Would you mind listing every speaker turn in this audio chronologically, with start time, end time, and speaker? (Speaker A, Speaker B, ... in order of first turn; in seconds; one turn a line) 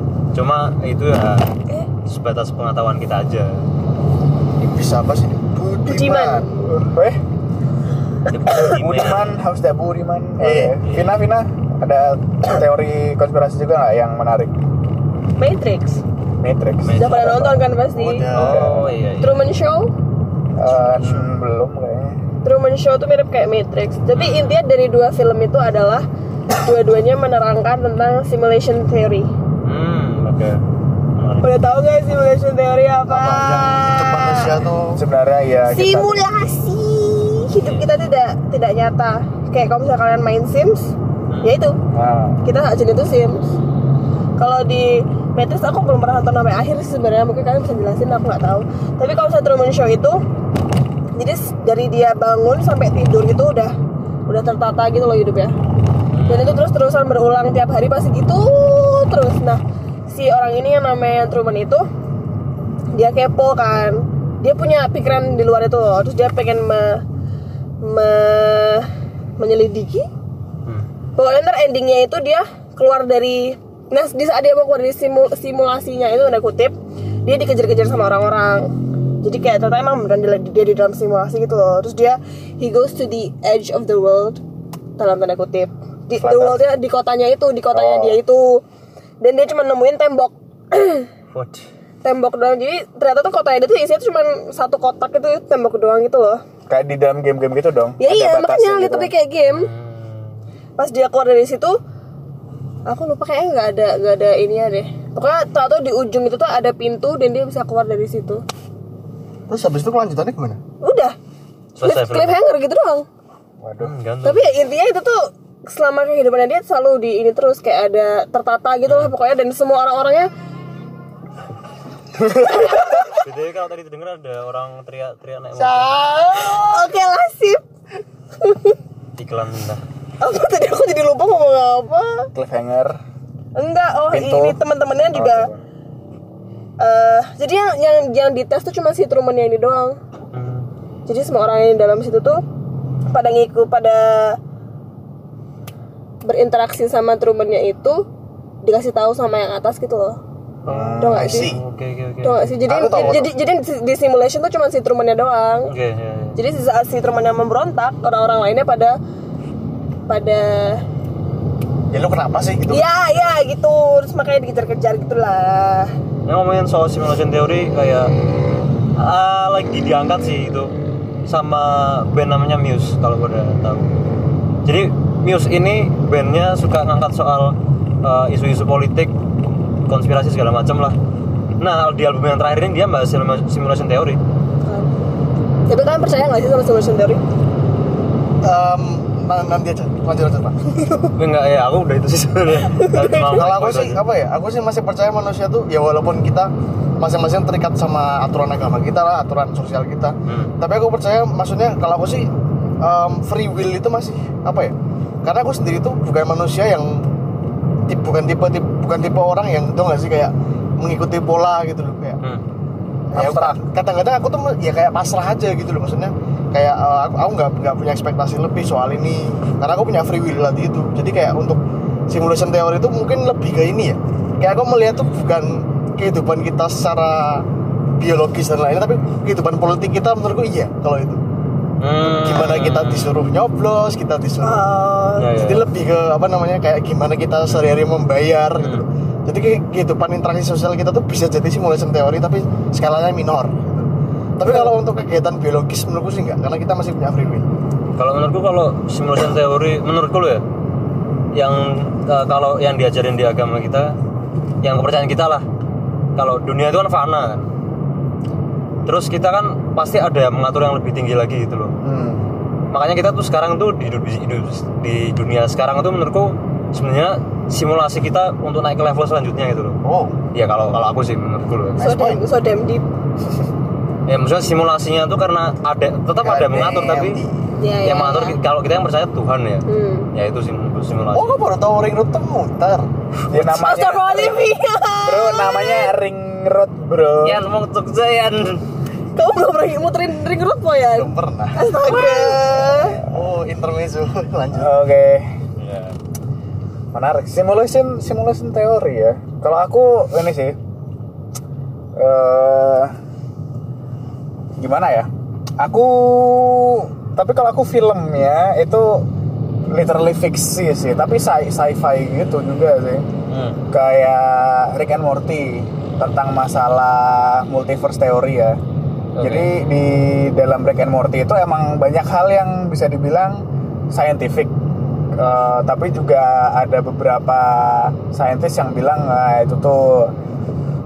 Speaker A: 0.3-1.5
Speaker A: 2.0-3.7
Speaker B: 4.6-6.5
Speaker C: 5.9-6.5
Speaker D: 6.7-7.2
Speaker A: 8.3-9.4
Speaker D: 8.7-14.5
Speaker B: 10.4-10.9
Speaker A: 10.8-11.2
Speaker C: 15.4-16.0
Speaker D: 16.4-17.7
Speaker A: 16.8-17.3
Speaker C: 16.9-18.3
Speaker B: 17.9-18.6
Speaker A: 18.3-19.5
Speaker D: 18.4-18.9
Speaker C: 19.2-19.9
Speaker D: 20.6-22.2
Speaker A: 20.7-21.2
Speaker C: 22.4-29.3
Speaker A: 24.1-24.6
Speaker A: 29.6-30.6
Speaker A: 31.1-31.5
Speaker C: 31.4-34.6
Speaker B: 33.1-35.0
Speaker D: 35.0-36.2
Speaker C: 35.7-41.8
Speaker A: 37.6-37.9
Speaker A: 41.3-41.5
Speaker D: 41.9-42.4
Speaker C: 42.4-43.5
Speaker C: 44.4-50.2
Speaker C: 51.1-53.7
Speaker C: 54.3-55.5
Speaker A: 56.1-56.7
Speaker C: 56.2-61.8
Speaker C: 62.9-67.0
Speaker C: 67.8-70.1
Speaker C: 71.2-84.4
Speaker C: 85.0-88.6
Speaker D: 86.1-86.6
Speaker D: 87.7-88.2
Speaker C: 89.2-91.1
Speaker A: 91.3-91.7
Speaker C: 92.0-96.4
Speaker D: 96.7-99.1
Speaker C: 98.0-99.7
Speaker A: 99.5-100.4
Speaker C: 100.8-101.8
Speaker C: 102.8-108.4
Speaker B: 109.5-110.6
Speaker C: 110.8-111.2
Speaker A: 111.7-112.4
Speaker C: 111.8-113.0
Speaker D: 113.6-113.9
Speaker A: 113.8-114.5
Speaker C: 114.2-120.3
Speaker C: 122.5-123.1
Speaker A: 123.1-125.9
Speaker C: 125.5-127.6
Speaker C: 128.4-128.8
Speaker A: 129.2-129.8
Speaker C: 130.2-132.3
Speaker D: 132.3-133.0
Speaker C: 133.5-135.5
Speaker D: 134.1-135.6
Speaker C: 136.8-140.0
Speaker A: 140.3-140.7
Speaker C: 141.1-142.4
Speaker C: 143.1-144.4
Speaker C: 146.2-148.0
Speaker C: 148.6-150.2
Speaker A: 150.6-153.2
Speaker D: 150.7-151.5
Speaker C: 151.0-151.6
Speaker B: 151.2-151.5
Speaker C: 152.2-155.7
Speaker B: 152.6-153.3
Speaker A: 155.6-156.4
Speaker C: 156.3-159.0
Speaker C: 160.1-160.8
Speaker B: 161.9-162.8
Speaker C: 162.7-165.9
Speaker A: 166.2-168.1
Speaker A: 168.9-170.7
Speaker A: 171.2-173.9
Speaker A: 174.6-179.1
Speaker A: 179.9-180.9
Speaker A: 181.6-184.2
Speaker C: 184.6-184.9
Speaker C: 185.7-187.2
Speaker B: 188.4-190.6
Speaker C: 190.7-191.1
Speaker A: 191.1-194.0
Speaker C: 192.7-193.3
Speaker B: 193.0-207.1
Speaker A: 200.2-200.5
Speaker B: 207.9-212.2
Speaker B: 213.1-227.4
Speaker D: 213.1-213.6
Speaker B: 228.0-231.2
Speaker A: 231.8-233.3
Speaker B: 232.0-234.7
Speaker C: 234.4-235.3
Speaker A: 235.2-235.7
Speaker B: 235.3-247.4
Speaker A: 238.6-238.8
Speaker C: 244.4-244.7
Speaker A: 248.0-250.4
Speaker A: 251.3-253.9
Speaker A: 254.6-255.4
Speaker A: 256.1-257.5
Speaker A: 258.8-261.7
Speaker D: 261.8-262.2
Speaker A: 262.7-269.8
Speaker B: 269.8-270.2
Speaker A: 270.3-271.8
Speaker B: 271.8-272.2
Speaker C: 271.8-272.9
Speaker A: 274.1-277.2
Speaker B: 276.2-277.5
Speaker C: 277.6-278.4
Speaker A: 277.8-281.4
Speaker C: 279.7-280.1
Speaker B: 281.1-282.9
Speaker D: 283.3-284.3
Speaker C: 283.3-285.9
Speaker D: 285.0-287.4
Speaker A: 287.2-288.6
Speaker C: 289.1-293.0
Speaker B: 290.9-294.7
Speaker D: 294.5-295.3
Speaker A: 295.6-295.9
Speaker D: 296.9-300.6
Speaker D: 301.9-302.9
Speaker D: 304.6-309.1
Speaker D: 309.7-313.1
Speaker A: 313.3-313.6
Speaker D: 313.7-318.6
Speaker A: 319.1-319.5
Speaker D: 319.2-324.5
Speaker D: 325.1-330.1